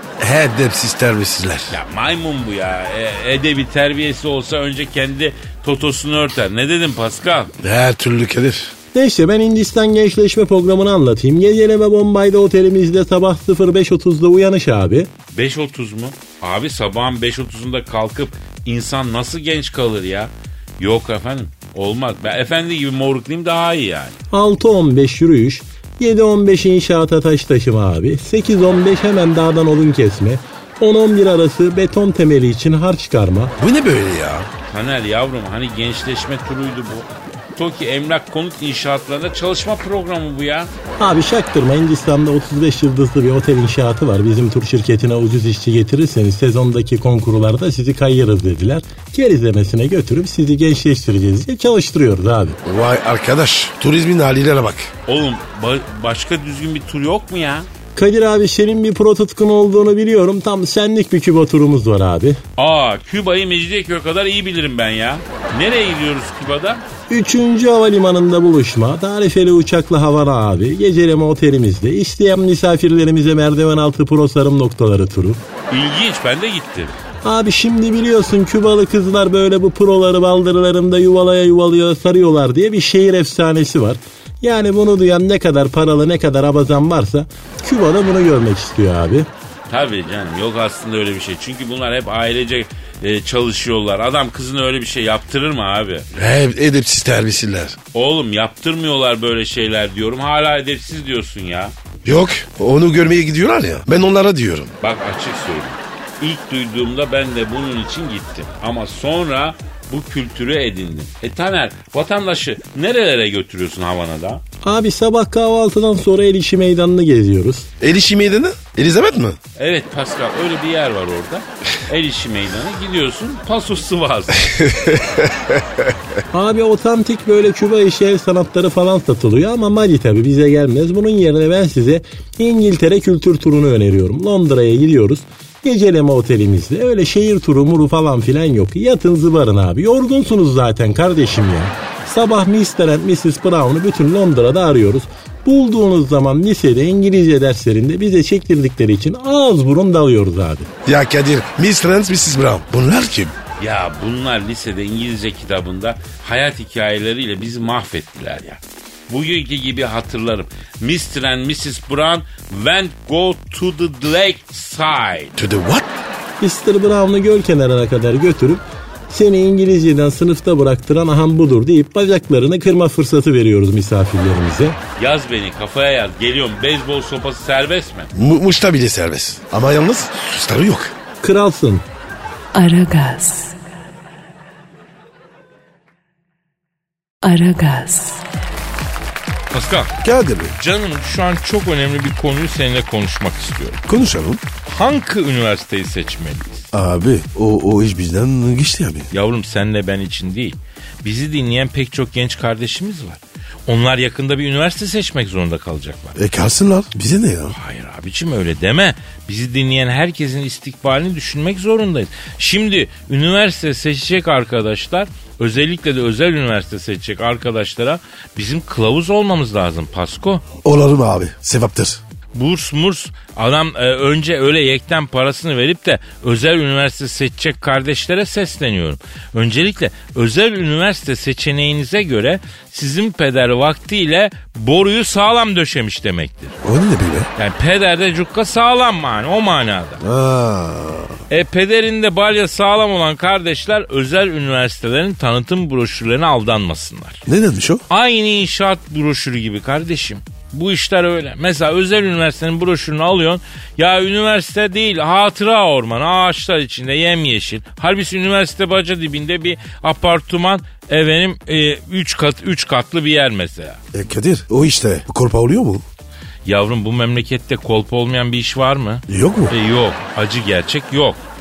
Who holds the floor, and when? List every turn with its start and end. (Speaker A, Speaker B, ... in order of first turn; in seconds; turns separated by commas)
Speaker A: 0.2-1.8, Speaker B: 1.7-7.5, Speaker A: 7.6-8.7, Speaker C: 8.9-15.1, Speaker B: 15.3-24.2, Speaker C: 24.3-33.5, Speaker A: 33.6-34.5, Speaker B: 34.7-40.7, Speaker C: 41.0-52.6, Speaker A: 52.6-54.9, Speaker B: 55.1-57.7, Speaker C: 58.0-62.4, Speaker B: 62.6-66.8, Speaker C: 67.1-75.4, Speaker B: 75.7-76.9, Speaker C: 77.2-89.3, Speaker B: 89.7-96.1, Speaker A: 96.1-97.8, Speaker B: 97.9-101.7, Speaker A: 102.0-104.7, Speaker B: 104.8-114.4, Speaker C: 114.6-117.7, Speaker A: 117.8-119.4, Speaker B: 119.6-124.5, Speaker A: 124.5-125.9, Speaker C: 126.3-150.7, Speaker A: 150.8-153.3, Speaker B: 153.6-165.3, Speaker A: 165.3-166.0, Speaker C: 166.4-174.8, Speaker B: 175.0-178.1, Speaker A: 178.1-180.9, Speaker C: 181.2-181.8, Speaker D: 182.5-183.5, Speaker D: 187.2-188.2, Speaker B: 189.5-189.9, Speaker A: 190.0-190.5, Speaker B: 190.6-193.8, Speaker A: 193.9-194.4, Speaker B: 194.7-196.7, Speaker A: 196.7-199.1, Speaker B: 199.1-206.2, Speaker A: 206.2-207.6, Speaker B: 207.5-220.4, Speaker A: 220.6-222.0, Speaker B: 222.3-236.6, Speaker A: 236.6-237.3, Speaker B: 237.3-240.0, Speaker A: 240.0-241.2, Speaker B: 241.3-247.2, Speaker A: 247.2-247.8, Speaker B: 247.9-263.8, Speaker A: 263.9-265.8, Speaker B: 266.4-271.2, Speaker A: 269.1-269.5